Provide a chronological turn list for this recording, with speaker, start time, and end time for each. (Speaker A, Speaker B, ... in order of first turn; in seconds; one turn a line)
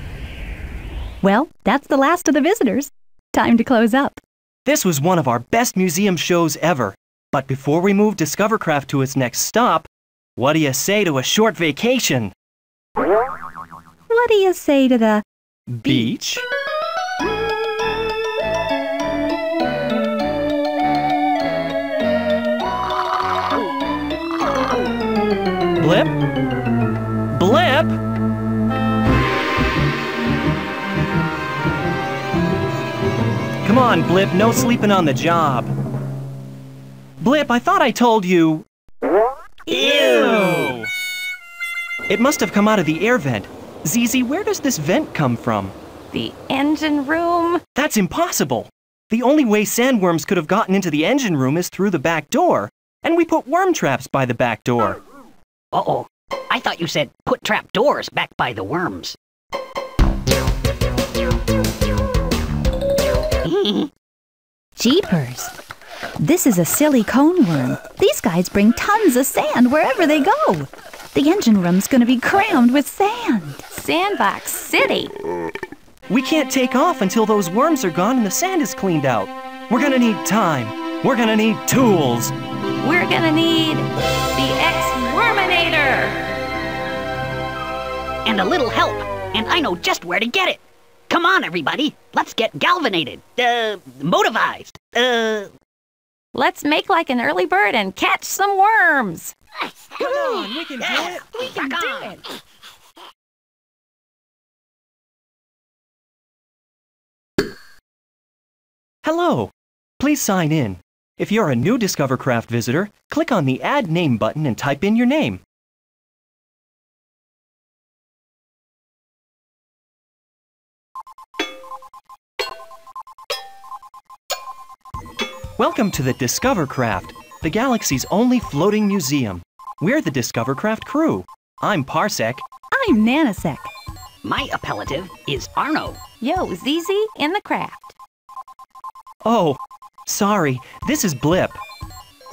Speaker A: 1.2-4.2
Speaker B: 4.7-12.3
Speaker A: 14.1-15.2
Speaker B: 15.7-16.4
Speaker B: 25.8-26.2
Speaker B: 27.3-28.0
Speaker B: 33.6-35.7
Speaker B: 37.2-38.7
Speaker A: 39.7-40.8
Speaker B: 39.7-40.9
Speaker B: 42.1-45.8
Speaker C: 46.1-47.6
Speaker B: 47.8-55.0
Speaker D: 55.7-59.2
Speaker D: 63.4-63.9
Speaker A: 64.8-65.5
Speaker A: 66.2-73.6
Speaker C: 73.7-75.2
Speaker B: 76.1-82.3
Speaker C: 82.8-86.2
Speaker D: 88.2-95.5
Speaker C: 96.3-99.3
Speaker B: 100.0-101.3
Speaker D: 100.8-102.2
Speaker C: 101.4-102.1
Speaker B: 109.0-115.4
Speaker B: 125.6-132.4
Speaker A: 132.7-133.7
Speaker D: 134.2-136.0
Speaker C: 136.2-137.9
Speaker B: 139.2-141.6